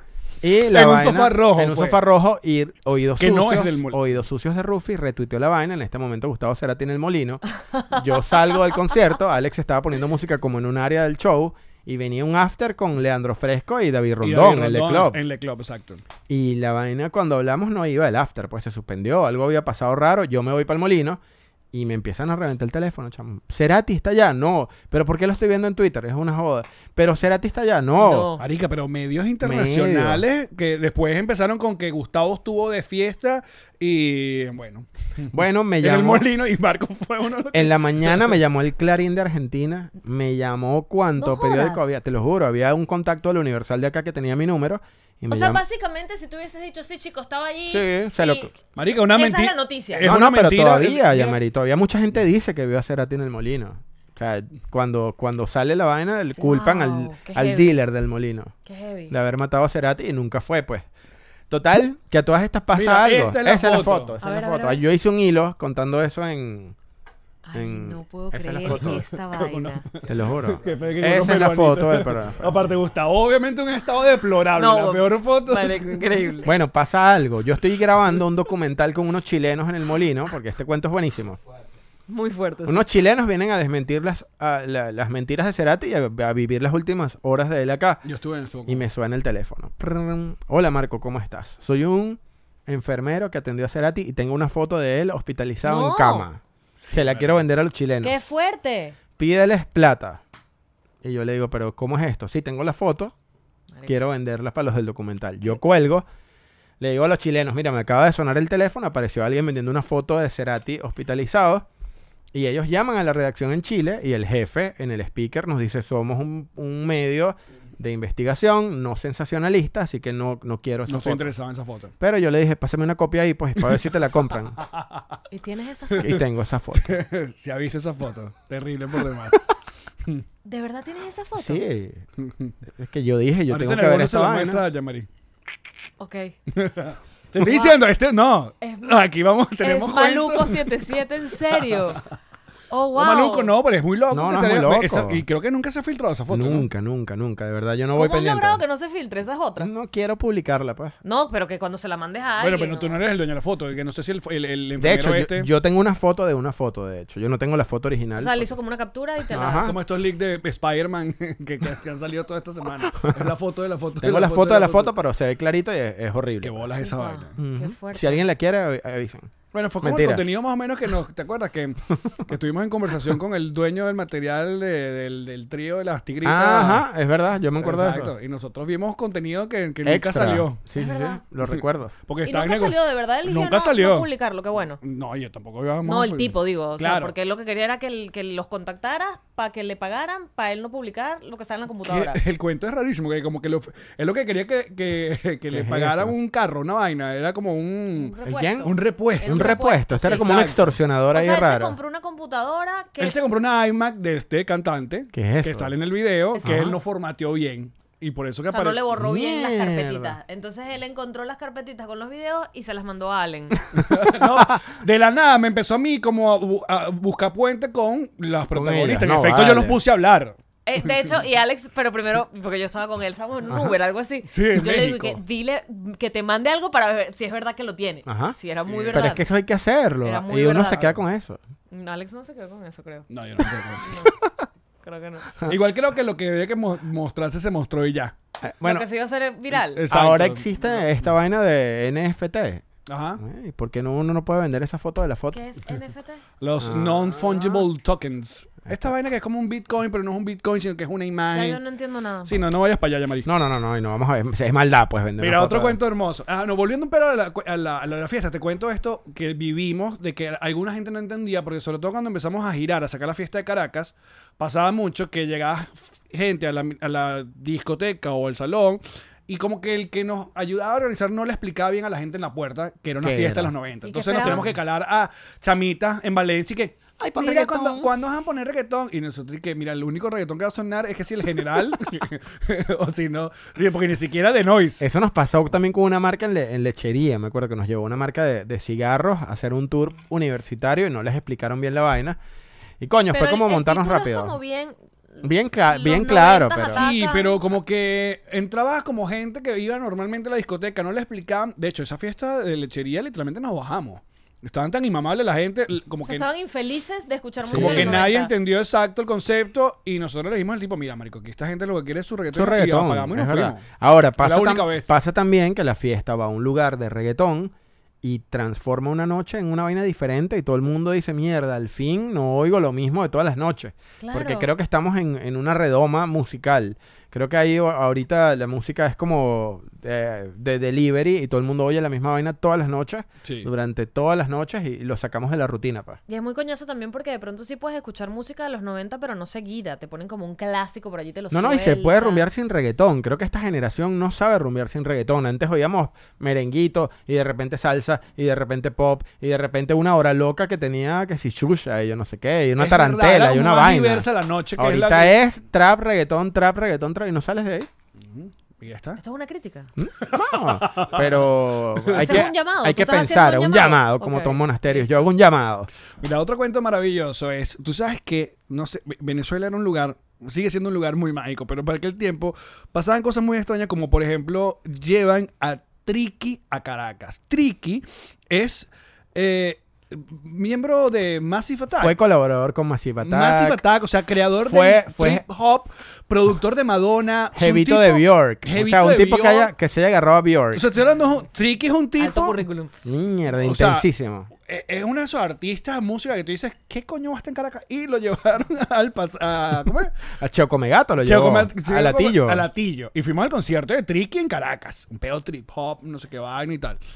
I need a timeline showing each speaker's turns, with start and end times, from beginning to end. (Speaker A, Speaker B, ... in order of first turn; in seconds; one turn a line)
Speaker A: 0.4-15.2
Speaker B: 0.7-2.0
Speaker B: 3.2-4.0
Speaker B: 14.2-16.0
Speaker A: 16.3-21.2
Speaker A: 21.7-28.3
Speaker C: 28.0-28.4
Speaker B: 28.4-38.4
Speaker A: 29.4-30.2
Speaker A: 35.3-36.3
Speaker A: 37.5-45.6
Speaker C: 41.2-41.9
Speaker C: 45.3-50.1
Speaker A: 47.7-48.6
Speaker B: 48.8-51.4
Speaker A: 50.0-58.5
Speaker C: 56.4-57.7
Speaker C: 58.6-59.1
Speaker A: 59.1-60.9
Speaker A: 61.5-66.7
Speaker B: 62.7-64.1
Speaker C: 64.2-64.8
Speaker C: 67.5-69.8
Speaker A: 67.5-69.0
Speaker B: 68.7-76.4
Speaker A: 70.0-72.7
Speaker C: 74.5-76.5
Speaker A: 76.4-81.4
Speaker C: 82.1-82.8
Speaker A: 82.6-88.0
Speaker B: 88.0-88.8
Speaker A: 88.7-98.2
Speaker C: 95.6-96.3
Speaker B: 96.8-97.4
Speaker C: 98.0-99.0
Speaker A: 99.2-100.2
Speaker A: 101.0-103.1
Speaker A: 103.8-106.0
Speaker A: 106.8-111.7
Speaker A: 112.3-121.3
Speaker B: 120.9-121.9
Speaker A: 122.0-124.6
Speaker B: 124.7-125.0
Speaker C: 125.3-126.1
Speaker A: 126.0-127.0
Speaker B: 126.8-129.5
Speaker C: 130.4-131.6
Speaker A: 131.4-132.0
Speaker B: 132.2-132.5
Speaker A: 132.8-134.6
Speaker B: 133.5-135.1
Speaker C: 136.0-136.3
Speaker B: 136.5-140.7
Speaker C: 137.4-137.8
Speaker C: 138.6-139.0
Speaker C: 139.6-142.0
Speaker B: 141.5-142.0
Speaker C: 142.7-143.5
Speaker B: 142.9-146.7
Speaker A: 144.1-145.2
Speaker A: 146.3-148.6
Speaker C: 147.9-149.7
Speaker A: 149.6-150.9
Speaker C: 151.0-153.0
Speaker B: 152.4-155.5
Speaker A: 154.8-158.5
Speaker C: 158.2-159.7
Speaker A: 159.3-159.8
Speaker B: 159.6-164.9
Speaker A: 164.0-166.7
Speaker B: 166.4-167.3
Speaker C: 166.8-168.2
Speaker A: 167.4-170.2
Speaker B: 169.5-176.8
Speaker A: 176.2-178.1
Speaker B: 177.6-180.6
Speaker A: 179.8-181.9
Speaker C: 180.8-181.2
Speaker B: 182.1-184.1
Speaker C: 182.2-184.8
Speaker B: 184.8-187.1
Speaker C: 185.8-192.2
Speaker B: 191.8-200.8
Speaker A: 195.5-196.1
Speaker C: 197.9-200.2
Speaker A: 198.2-201.8
Speaker C: 201.1-203.2
Speaker B: 203.0-208.8
Speaker A: 205.1-205.7
Speaker A: 206.4-206.8
Speaker C: 208.5-213.6
Speaker A: 208.9-210.2
Speaker B: 213.8-220.3
Speaker A: 218.5-219.8
Speaker C: 220.7-229.2
Speaker B: 224.2-225.2
Speaker A: 228.1-228.3
Speaker B: 228.7-229.1
Speaker A: 228.9-231.4
Speaker C: 230.0-230.9
Speaker C: 231.7-233.1
Speaker B: 233.1-233.9
Speaker C: 233.8-234.2
Speaker C: 234.8-235.3
Speaker B: 235.5-238.1
Speaker A: 238.4-238.8
Speaker C: 238.6-239.8
Speaker B: 239.6-240.8
Speaker A: 239.9-242.6
Speaker B: 242.9-243.2
Speaker A: 243.2-245.4
Speaker C: 245.3-246.2
Speaker B: 246.4-251.6
Speaker A: 246.6-247.7
Speaker C: 251.3-252.4
Speaker B: 252.2-253.3
Speaker A: 253.2-255.8
Speaker B: 255.2-284.8
Speaker A: 273.0-273.5
Speaker C: 273.8-274.4
Speaker A: 274.2-274.5
Speaker A: 277.0-277.9
Speaker A: 284.8-292.2
Speaker A: 292.8-294.4
Speaker C: 293.1-297.4
Speaker A: 295.2-296.8
Speaker B: 296.6-306.3
Speaker C: 306.0-308.3
Speaker A: 307.4-308.0
Speaker B: 307.5-313.6
Speaker A: 312.3-336.0
Speaker B: 314.2-314.9
Speaker C: 324.0-324.5
Speaker B: 333.2-333.5
Speaker C: 336.1-342.3
Speaker A: 341.3-357.7
Speaker B: 352.6-355.2
Speaker B: 358.0-359.0
Speaker C: 359.0-359.7
Speaker A: 359.8-365.7
Speaker B: 360.0-362.3
Speaker C: 361.9-364.9
Speaker B: 366.0-381.9
Speaker A: 381.8-383.6
Speaker B: 383.0-389.5
Speaker A: 384.4-385.2
Speaker A: 387.3-390.7
Speaker B: 390.5-392.4
Speaker C: 392.0-392.7
Speaker A: 392.8-394.3
Speaker B: 393.4-393.9
Speaker B: 394.4-399.9
Speaker A: 400.2-402.5
Speaker B: 401.0-406.8